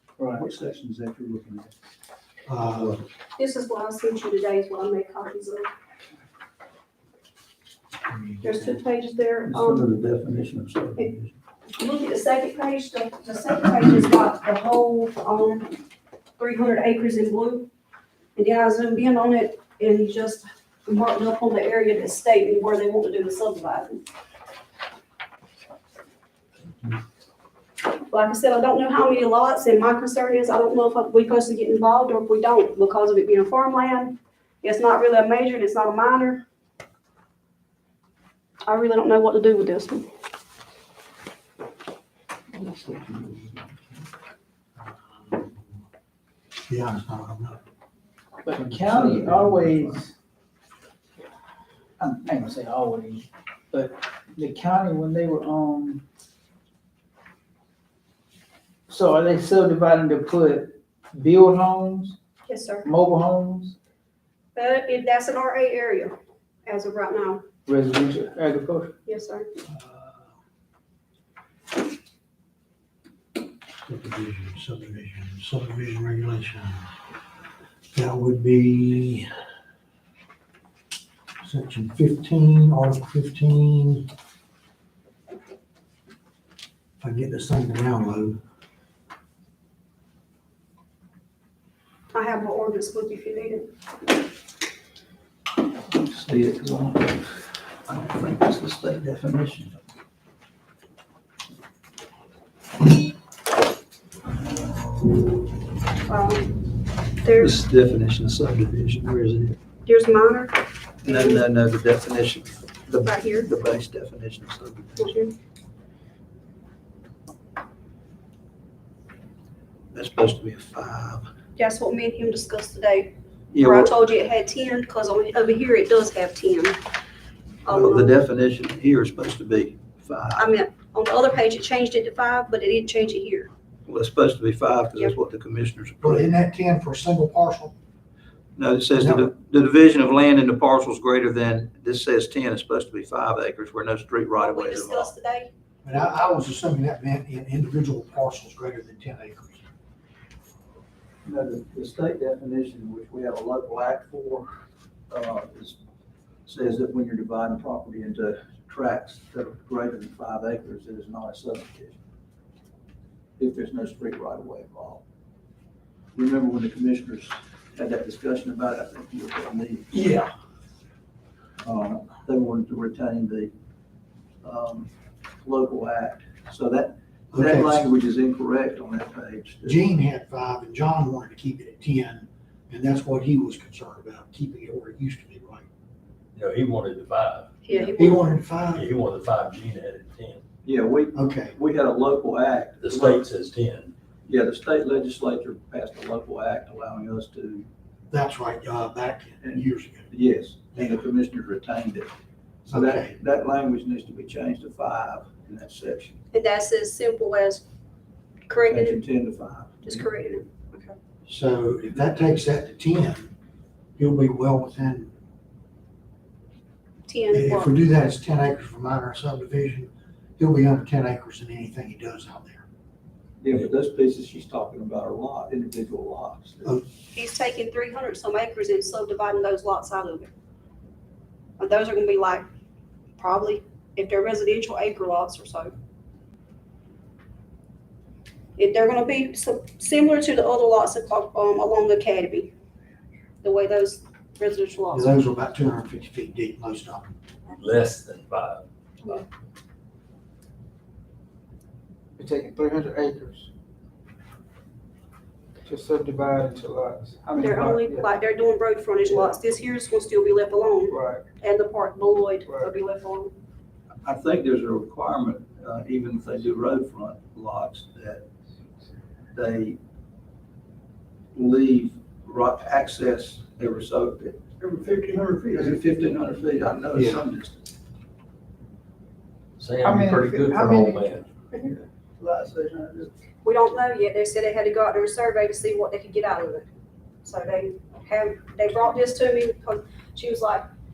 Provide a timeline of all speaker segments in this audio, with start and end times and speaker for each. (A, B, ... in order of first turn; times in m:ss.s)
0:00.2-0:01.7 A
0:02.5-0:03.0 B
0:03.4-0:05.7 C
0:08.1-0:08.8 B
0:08.4-0:09.9 C
0:09.5-0:11.3 A
0:11.7-0:15.7 C
0:16.4-0:17.7 C
0:18.4-0:24.0 C
0:28.1-0:36.4 C
0:38.7-0:40.0 C
0:42.6-0:43.7 A
0:46.7-0:47.6 B
0:48.4-0:50.1 D
0:48.6-0:50.0 A
0:52.0-0:56.0 D
0:58.9-1:02.2 D
1:02.5-1:02.8 C
1:02.8-1:03.8 D
1:04.6-1:07.4 C
1:07.7-1:08.9 D
1:09.1-1:09.5 C
1:09.8-1:10.1 B
1:13.8-1:16.9 B
1:17.9-1:19.3 B
1:21.4-1:24.1 B
1:27.0-1:28.4 B
1:32.1-1:33.7 C
1:35.9-1:39.8 A
1:46.1-1:46.5 C
1:47.2-1:47.6 C
1:47.4-1:49.6 A
1:49.8-1:51.4 C
1:51.0-1:55.1 A
1:53.0-1:53.5 C
1:55.0-1:55.3 C
1:59.9-2:01.2 A
2:01.6-2:06.8 C
2:03.5-2:03.9 A
2:07.6-2:08.2 C
2:07.7-2:10.5 A
2:10.4-2:13.5 C
2:13.9-2:16.3 A
2:16.0-2:17.7 B
2:18.6-2:25.1 A
2:19.0-2:19.3 B
2:24.4-2:25.5 C
2:25.8-2:29.6 B
2:31.2-2:34.5 A
2:35.1-2:35.8 A
2:36.5-2:42.0 A
2:43.4-2:45.0 A
2:46.1-2:49.9 A
2:49.9-2:50.2 B
2:51.6-2:53.5 A
2:54.4-2:54.9 A
2:55.4-2:59.8 A
2:57.3-2:57.9 B
2:59.6-3:05.7 B
3:06.3-3:07.5 E
3:07.6-3:08.3 C
3:07.8-3:08.9 B
3:08.7-3:10.4 E
3:10.7-3:13.2 A
3:11.2-3:11.6 B
3:12.8-3:13.9 E
3:14.3-3:17.7 A
3:18.1-3:20.1 B
3:19.4-3:22.1 A
3:22.7-3:26.2 A
3:22.7-3:23.1 B
3:26.3-3:27.6 C
3:28.5-3:29.0 C
3:28.7-3:30.0 A
3:29.8-3:30.9 C
3:31.3-3:33.3 B
3:34.0-3:35.1 B
3:37.1-3:37.7 C
3:37.3-3:42.6 B
3:43.4-3:46.8 A
3:47.1-3:50.3 C
3:51.6-3:52.4 C
3:53.2-3:55.8 C
3:58.6-4:02.5 C
4:03.4-4:05.1 C
4:04.9-4:07.1 B
4:07.5-4:08.6 E
4:12.2-4:13.5 D
4:15.7-4:18.1 D
4:17.4-4:23.3 C
4:20.9-4:21.2 D
4:24.0-4:28.2 A
4:29.3-4:29.8 A
4:31.3-4:37.6 A
4:36.9-4:37.2 B
4:39.6-4:41.3 E
4:39.8-4:43.1 D
4:43.4-4:46.7 C
4:47.2-4:50.6 C